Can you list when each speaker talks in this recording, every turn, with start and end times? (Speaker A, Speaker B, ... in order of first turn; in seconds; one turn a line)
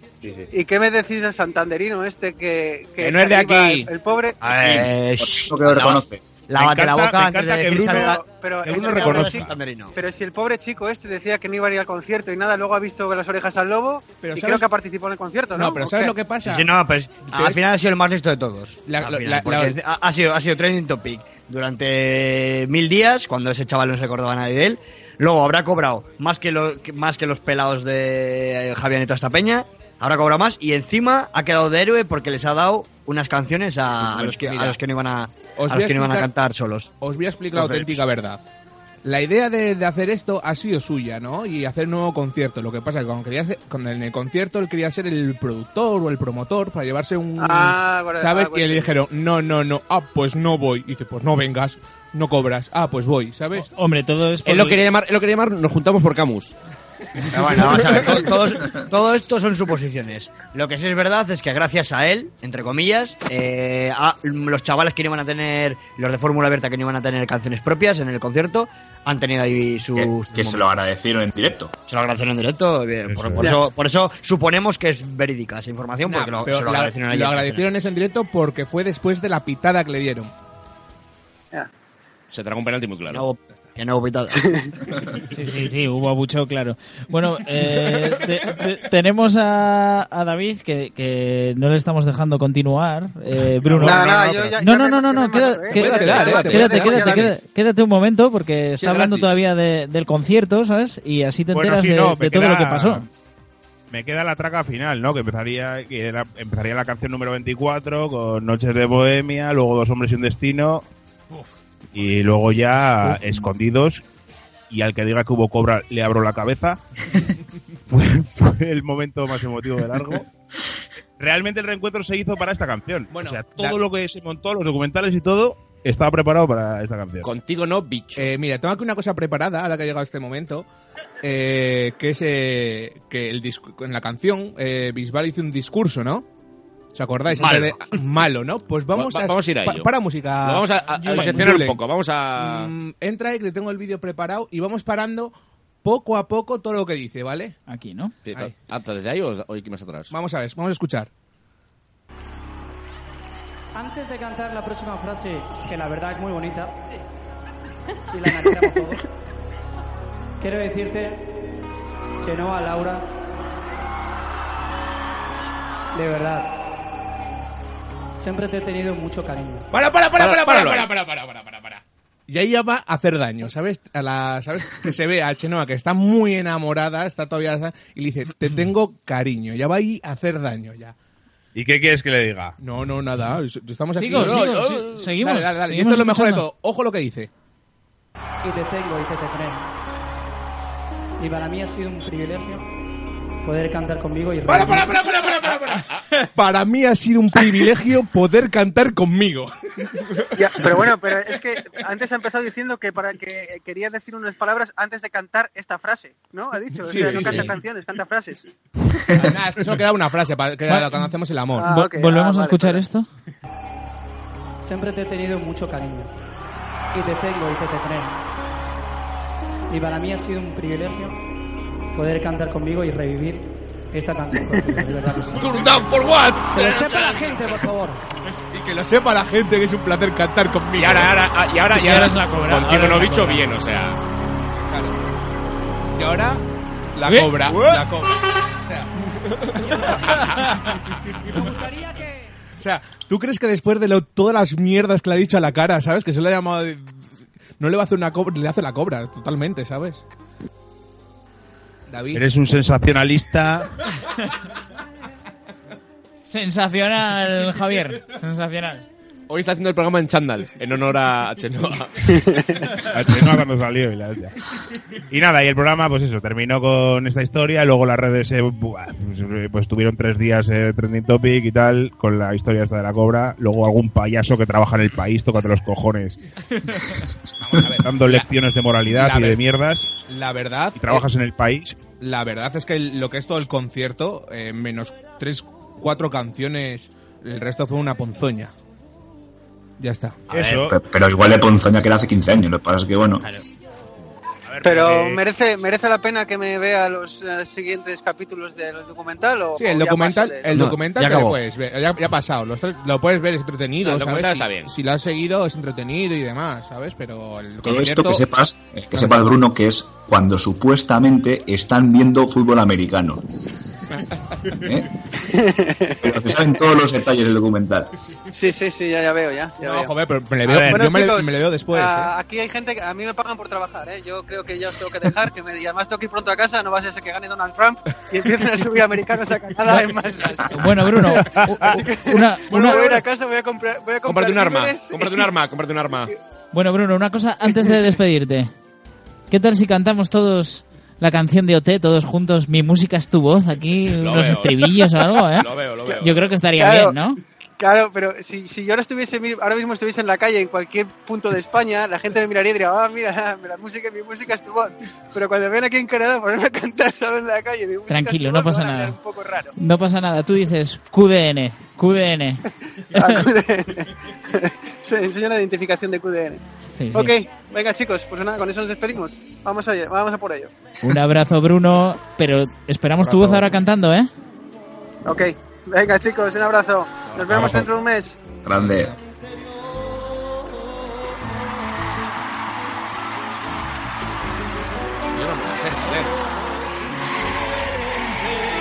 Speaker A: 0.5-4.4
Speaker B: 3.0-3.9
Speaker C: 4.4-9.9
Speaker D: 4.5-6.2
Speaker E: 6.6-9.6
Speaker A: 8.0-16.1
Speaker B: 14.2-14.7
Speaker B: 15.5-16.7
Speaker C: 16.4-36.9
Speaker B: 17.2-17.6
Speaker B: 18.9-19.8
Speaker B: 33.9-34.8
Speaker B: 35.5-36.3
Speaker B: 37.0-38.4
Speaker C: 37.5-38.0
Speaker B: 39.0-53.7
Speaker A: 47.4-48.9
Speaker F: 53.5-54.8
Speaker G: 54.4-56.5
Speaker C: 57.3-70.6
Speaker B: 57.3-57.7
Speaker D: 69.9-71.7
Speaker C: 71.9-77.7
Speaker E: 73.1-73.5
Speaker B: 76.0-80.3
Speaker G: 82.3-83.2
Speaker C: 83.1-84.5
Speaker A: 84.4-84.6
Speaker F: 85.3-103.0
Speaker E: 93.6-94.1
Speaker A: 93.8-97.3
Speaker B: 95.7-97.3
Speaker B: 98.8-99.2
Speaker G: 98.9-99.2
Speaker E: 101.5-103.1
Speaker E: 103.9-110.8
Speaker E: 111.9-114.0
Speaker E: 114.7-116.8
Speaker E: 117.9-120.3
Speaker E: 121.2-127.3
Speaker B: 123.1-123.8
Speaker G: 127.2-128.3
Speaker B: 128.2-130.7
Speaker B: 131.2-136.2
Speaker B: 136.9-141.8
Speaker C: 137.3-137.7
Speaker G: 138.9-142.7
Speaker F: 141.0-141.4
Speaker B: 142.4-147.6
Speaker F: 147.7-148.1
Speaker G: 148.2-150.1
Speaker B: 150.1-151.1
Speaker H: 153.7-156.8
Speaker H: 158.1-159.0
Speaker H: 160.4-161.2
Speaker H: 162.2-163.1
Speaker H: 165.9-166.5
Speaker H: 168.2-169.7
Speaker B: 169.7-180.9
Speaker G: 170.2-170.9
Speaker E: 181.5-182.5
Speaker B: 182.6-187.3
Speaker F: 183.9-186.4
Speaker H: 188.4-189.7
Speaker H: 191.2-192.6
Speaker H: 193.4-194.9
Speaker B: 194.4-200.8
Speaker A: 200.3-208.4
Speaker B: 206.9-207.5
Speaker B: 209.1-211.7
Speaker F: 210.7-211.1
Speaker A: 211.6-212.8
Speaker F: 211.6-213.1
Speaker H: 214.6-216.1
Speaker H: 216.9-218.2
Speaker H: 219.7-221.2
Speaker H: 221.9-225.6
Speaker G: 225.3-227.7
Speaker H: 226.5-228.0
Speaker B: 228.4-231.2
Speaker G: 230.8-234.0
Speaker F: 231.7-233.5
Speaker B: 234.7-235.0
Speaker B: 235.9-236.4
Speaker B: 236.9-239.9
Speaker F: 237.1-237.7
Speaker H: 239.6-240.5
Speaker H: 241.3-242.3
Speaker B: 242.6-247.0
Speaker B: 247.6-250.0
Speaker B: 251.9-252.3
Speaker E: 252.1-253.7
Speaker F: 256.2-258.8
Speaker G: 259.3-262.2
Speaker E: 262.7-264.3
Speaker E: 265.1-276.2
Speaker B: 277.4-278.3
Speaker E: 277.8-279.9
Speaker B: 278.9-279.4
Speaker B: 280.1-281.1
Speaker E: 280.8-281.8
Speaker B: 282.0-288.5
Speaker B: 289.8-290.2
Speaker E: 290.3-290.8
Speaker D: 290.4-293.2
Speaker E: 294.4-295.2
Speaker A: 294.6-300.6
Speaker B: 299.6-308.2
Speaker C: 300.5-301.4
Speaker G: 303.8-304.7
Speaker D: 307.6-313.2
Speaker D: 314.5-314.9
Speaker A: 315.2-316.1
Speaker D: 316.0-317.9
Speaker A: 318.3-319.9
Speaker B: 319.6-322.1
Speaker E: 320.4-320.9
Speaker A: 320.5-330.9
Speaker F: 330.5-332.8
Speaker E: 331.2-331.7
Speaker B: 331.6-331.9
Speaker A: 331.7-335.3
Speaker B: 332.5-333.0
Speaker G: 334.0-336.1
Speaker F: 336.5-338.5
Speaker F: 339.3-347.2
Speaker G: 344.0-344.7
Speaker G: 345.4-346.3
Speaker A: 346.6-346.9
Speaker A: 347.6-359.5
Speaker F: 357.9-359.0
Speaker F: 359.6-363.2
Speaker A: 362.9-366.4
Speaker F: 366.8-367.1
Speaker A: 366.9-370.5
Speaker F: 370.8-374.1
Speaker E: 373.1-373.4
Speaker A: 375.0-378.2
Speaker D: 378.4-378.9
Speaker G: 385.1-386.1